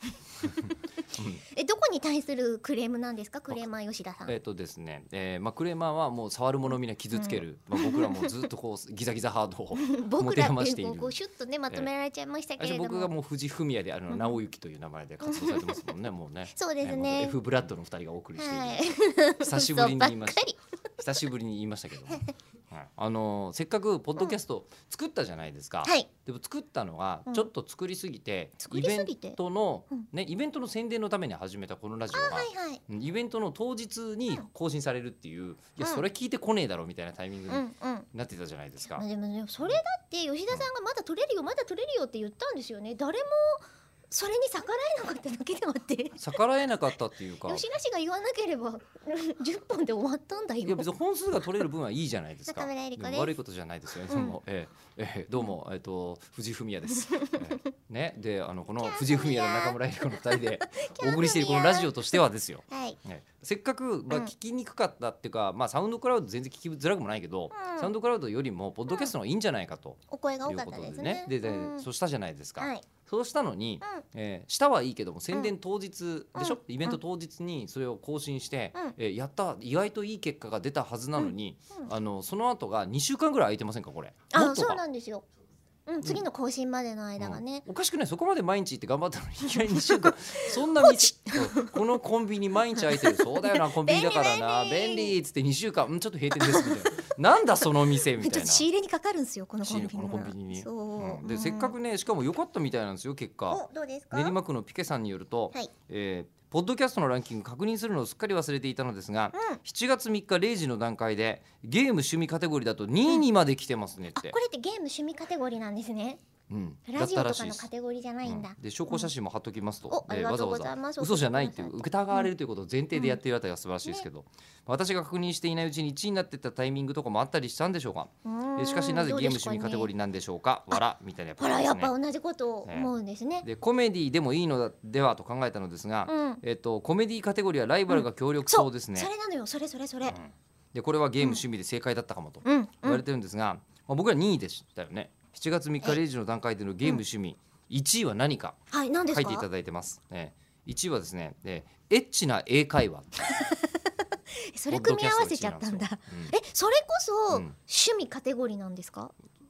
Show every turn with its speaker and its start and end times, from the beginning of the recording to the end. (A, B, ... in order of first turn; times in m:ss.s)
0:00.4-0:01.4 A
0:01.4-0:04.3 B
0:04.2-0:11.2 A
0:07.1-0:08.4 B
0:09.8-0:13.1 B
0:12.6-0:39.0 A
0:14.1-0:14.4 B
0:15.2-0:16.0 B
0:16.5-0:17.4 B
0:18.4-0:20.6 B
0:25.8-0:26.1 B
0:28.6-0:29.4 B
0:32.1-0:32.8 B
0:35.8-0:36.0 B
0:37.5-0:38.1 B
0:38.8-0:46.4 B
0:46.2-0:47.6 A
0:47.4-0:50.8 B
0:50.6-1:24.8 A
0:52.5-0:53.3 B
0:54.1-0:54.4 B
0:57.1-0:57.5 B
0:58.8-1:02.2 B
1:02.7-1:03.0 B
1:07.5-1:07.9 B
1:10.1-1:11.8 B
1:12.6-1:12.8 B
1:16.4-1:17.0 B
1:24.3-1:25.2 B
1:25.9-1:27.6 B
1:27.2-1:38.6 A
1:29.5-1:30.1 B
1:30.7-1:31.8 B
1:32.8-1:35.2 B
1:36.3-1:36.9 B
1:37.6-1:41.8 B
1:39.6-1:54.4 A
1:43.5-1:44.3 B
1:49.3-1:49.6 B
1:54.1-1:56.2 B
1:56.5-1:57.7 A
1:56.9-1:59.1 B
1:58.2-2:11.9 A
1:59.9-2:02.3 B
2:08.2-2:09.9 B
2:11.4-2:13.4 B
2:12.6-2:12.9 A
2:13.4-2:19.1 A
2:16.1-2:16.4 B
2:17.9-2:20.2 B
2:20.1-2:28.6 A
2:22.4-2:23.0 B
2:28.7-2:29.4 B
2:29.1-2:33.4 A
2:33.3-2:39.1 B
2:34.7-2:36.3 A
2:37.3-2:37.6 A